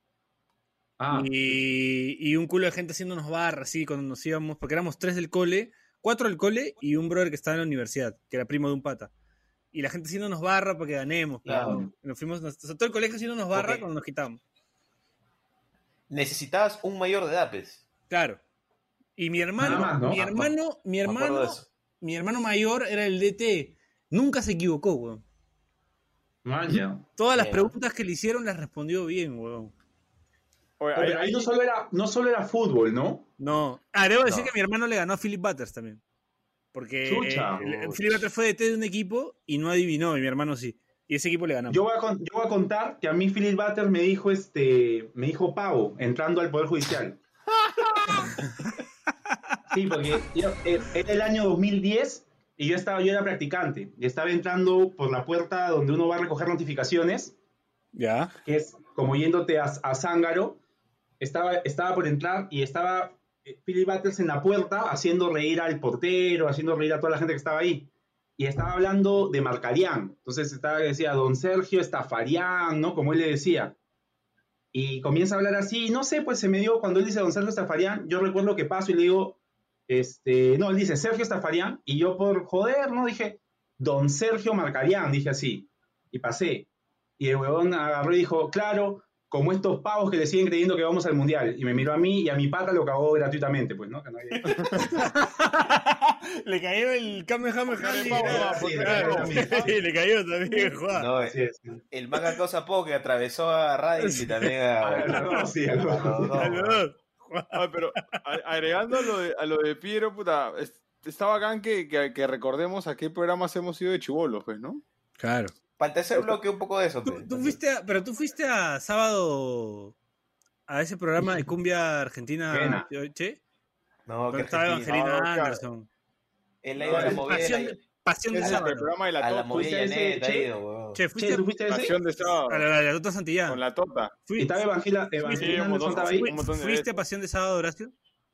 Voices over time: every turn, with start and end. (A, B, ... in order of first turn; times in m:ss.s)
0:01.0-0:01.6 A
0:01.1-0:09.1 B
0:09.7-0:14.4 B
0:11.4-0:11.8 C
0:11.6-0:11.9 A
0:13.5-0:13.8 C
0:16.1-0:17.8 C
0:18.1-0:18.4 B
0:19.2-0:25.2 B
0:19.6-0:20.2 A
0:19.6-0:20.5 C
0:21.0-0:21.7 C
0:26.4-0:27.0 A
0:27.2-0:29.7 B
0:27.3-0:27.7 C
0:30.8-0:31.5 D
0:30.9-0:33.3 A
0:33.4-0:36.0 B
0:34.3-0:34.5 C
0:36.7-0:41.8 B
0:37.0-0:38.2 A
0:41.7-0:47.2 A
0:49.7-0:57.3 A
0:57.9-0:58.3 B
0:58.4-1:00.6 A
1:01.2-1:13.8 A
1:14.7-1:26.7 A
1:27.2-1:34.8 A
1:34.5-1:34.8 D
1:34.8-1:41.1 B
1:37.7-1:39.7 D
1:38.0-1:39.8 A
1:40.9-1:41.4 C
1:41.2-1:41.8 A
1:41.9-1:46.8 C
1:44.0-1:45.4 B
1:44.8-1:46.5 A
1:46.3-1:48.2 B
1:47.5-1:54.8 D
1:55.2-1:55.5 B
1:55.8-1:57.6 C
1:57.0-1:59.9 B
2:00.7-2:03.4 B
2:02.5-2:02.9 A
2:04.0-2:05.0 C
2:04.3-2:05.9 B
2:04.9-2:05.6 D
2:06.6-2:07.8 C
2:06.8-2:07.2 D
2:06.9-2:07.2 A
2:06.9-2:08.9 B
2:08.3-2:09.7 D
2:09.2-2:11.0 C
2:09.5-2:10.5 A
2:10.9-2:11.5 B
2:11.1-2:12.0 A
2:11.7-2:12.6 D
2:12.2-2:13.6 B
2:13.5-2:14.2 D
2:14.2-2:14.6 B
2:14.4-2:16.3 A
2:15.2-2:17.9 B
2:15.3-2:16.9 D